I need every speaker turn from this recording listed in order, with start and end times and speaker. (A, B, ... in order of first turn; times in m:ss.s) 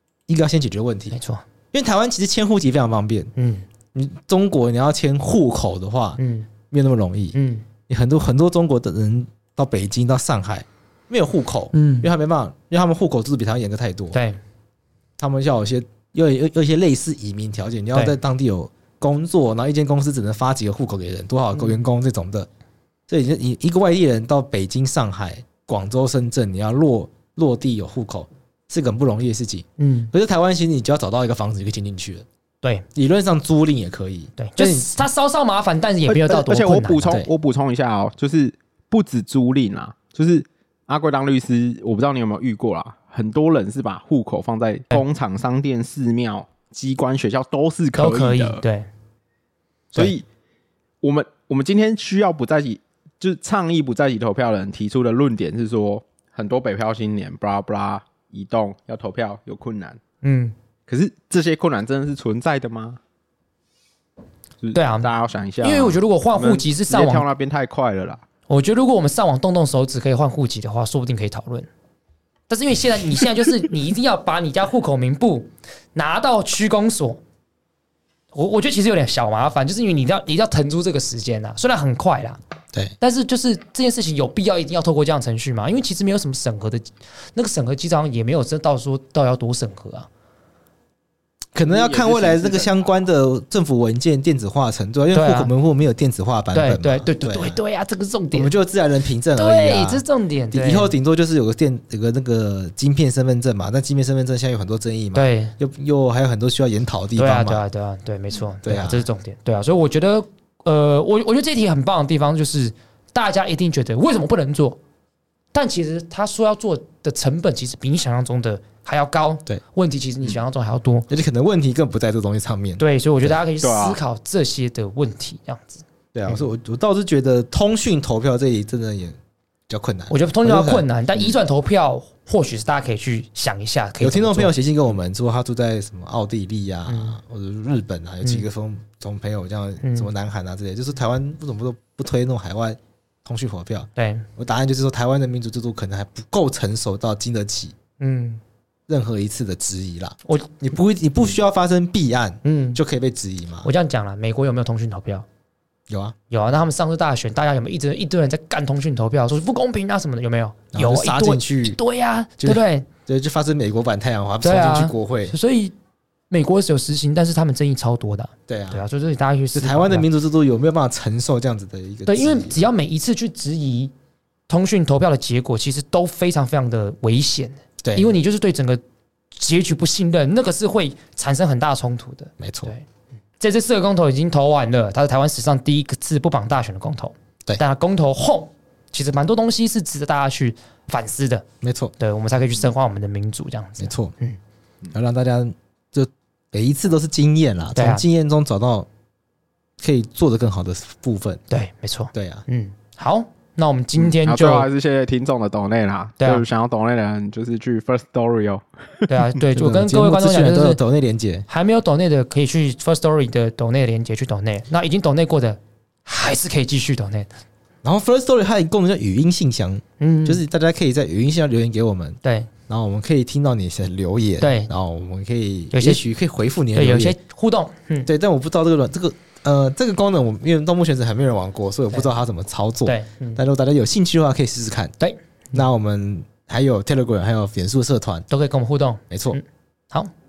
0:00.3-0:01.2 A
0:01.1-0:01.4 B
0:01.7-0:03.3 A
0:03.4-0:03.6 B
0:03.9-0:07.3 A
0:06.2-0:06.5 B
0:07.3-0:07.6 B
0:07.9-0:14.2 A
0:11.7-0:12.1 B
0:14.1-0:14.4 B
0:15.2-0:22.5 A
0:23.1-0:32.2 A
0:29.8-0:30.1 B
0:32.9-0:34.9 A
0:34.4-0:37.1 B
0:36.1-0:48.6 C
0:48.0-0:48.9 B
0:49.9-0:50.2 C
0:51.0-1:00.0 C
1:00.2-1:00.5 B
1:00.9-1:03.0 C
1:04.6-1:08.2 C
1:04.7-1:05.1 B
1:05.6-1:07.2 B
1:08.5-1:11.7 B
1:12.5-1:17.2 B
1:18.3-1:22.4 B
1:23.0-1:30.1 B
1:31.5-1:37.6 A
1:31.7-1:32.8 C
1:35.1-1:35.5 B
1:36.5-1:38.5 B
1:38.3-1:47.6 A
1:39.3-1:40.9 B
1:45.1-1:45.5 B
1:47.2-1:54.8 B
1:48.6-1:49.1 A
1:55.5-2:01.1 B
2:01.1-2:03.4 A
2:02.8-2:06.4 B
2:03.6-2:04.0 C
2:06.1-2:09.2 A
2:09.7-2:10.9 A
2:10.1-2:14.5 B
2:14.0-2:27.7 A
2:16.9-2:17.2 B
2:19.8-2:20.1 B
2:24.0-2:24.2 B
2:28.0-2:28.4 B
2:28.9-2:33.7 A
2:32.4-2:32.8 B
2:33.6-2:35.2 B
2:35.9-2:36.1 A
2:36.3-2:42.8 B
2:40.7-2:41.8 A
2:42.4-2:45.3 A
2:44.4-2:45.7 B
2:46.3-2:50.1 B
2:48.5-2:48.8 A
2:49.5-2:52.6 A
2:52.0-2:53.9 B
2:54.5-2:58.8 B
2:57.8-2:58.1 A
2:59.3-3:02.8 B
3:02.4-3:02.7 A
3:03.4-3:11.4 B
3:11.6-3:11.9 A
3:12.0-3:14.4 B
3:13.8-3:14.1 A
3:14.9-3:18.9 A
3:17.8-3:18.0 B
3:19.8-3:21.4 A
3:21.5-3:24.7 B
3:22.1-3:22.4 A
3:24.0-3:29.3 C
3:29.1-3:30.8 B
3:29.5-3:31.5 A
3:31.5-3:37.3 B
3:37.8-3:47.2 A
3:40.0-3:40.4 B
3:42.2-3:42.5 B
3:44.4-3:44.7 B
3:45.7-3:46.0 B
3:46.7-3:48.1 B
3:48.0-3:54.9 A
3:52.8-3:53.4 B
3:55.0-3:55.6 B
3:55.5-3:58.2 A
3:58.3-4:00.1 B
3:59.1-3:59.4 A